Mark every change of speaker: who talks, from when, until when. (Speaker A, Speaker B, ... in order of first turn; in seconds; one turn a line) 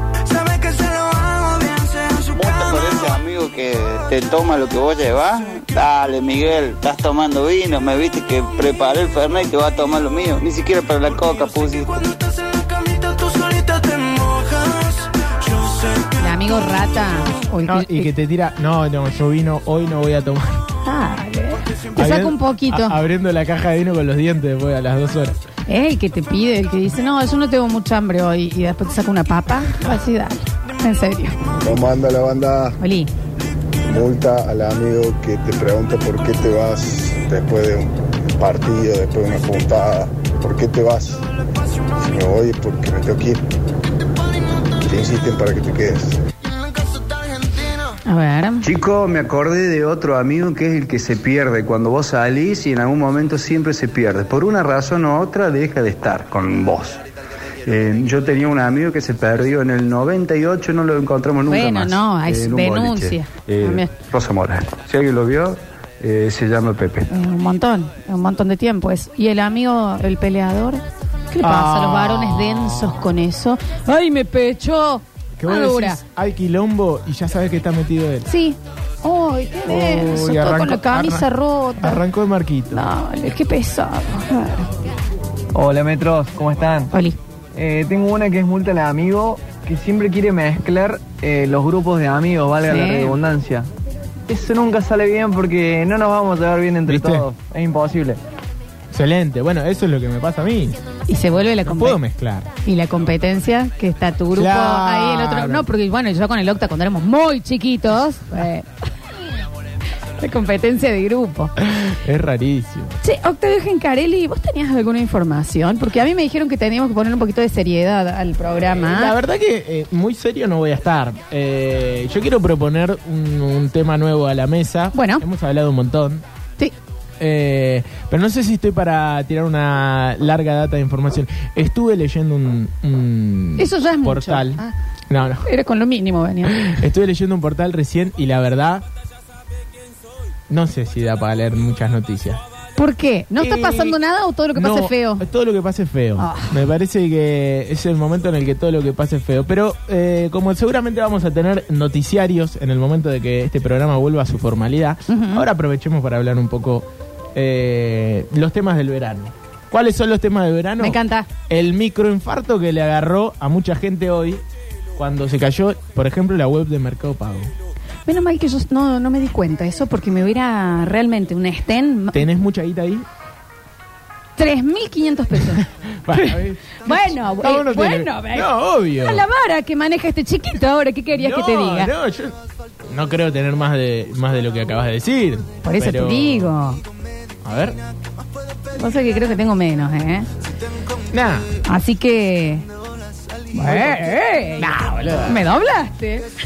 Speaker A: 0.3-12.2
Speaker A: 13.0-14.8
Speaker B: 16.2-18.1
Speaker C: 17.7-20.6
Speaker B: 20.8-23.0
Speaker C: 22.0-25.4
Speaker B: 25.7-31.4
Speaker D: 31.6-32.8
Speaker B: 32.8-33.1
Speaker D: 33.8-41.2
Speaker D: 42.0-43.4
Speaker D: 44.9-46.2
Speaker B: 48.0-48.6
Speaker E: 48.6-57.0
Speaker E: 57.6-67.1
Speaker B: 61.5-63.9
Speaker B: 67.1-76.0
Speaker C: 71.4-73.1
Speaker C: 75.4-78.3
Speaker B: 78.2-82.0
Speaker C: 79.6-81.3
Speaker C: 81.8-82.8
Speaker B: 82.7-84.7
Speaker F: 85.5-86.9
Speaker B: 86.9-87.2
Speaker F: 87.5-93.7
Speaker B: 92.6-93.2
Speaker F: 94.3-98.2
Speaker C: 96.9-97.2
Speaker C: 98.9-100.8
Speaker B: 101.1-102.0
Speaker C: 101.6-102.5
Speaker B: 102.6-108.7
Speaker C: 104.3-105.7
Speaker B: 110.2-111.5
Speaker C: 111.6-113.0
Speaker B: 113.0-119.1
Speaker C: 118.8-126.2
Speaker B: 124.9-125.2
Speaker C: 127.2-135.5
Speaker B: 133.6-134.7
Speaker B: 135.4-136.7
Speaker C: 136.5-138.8
Speaker C: 140.5-142.4
Speaker B: 142.8-145.2
Speaker C: 143.4-144.0
Speaker C: 144.5-164.4
Speaker B: 146.2-146.6
Speaker B: 155.1-155.4
Speaker B: 160.8-161.3
Speaker C: 164.9-167.5
Speaker B: 168.1-172.2
Speaker C: 172.1-173.1
Speaker B: 174.4-181.9
Speaker C: 175.5-179.2
Speaker C: 181.1-186.5
Speaker B: 185.6-186.8
Speaker C: 187.4-187.8
Speaker B: 188.8-190.3
Speaker C: 191.1-191.5
Speaker B: 191.7-192.6
Speaker B: 193.5-196.3
Speaker C: 193.6-195.4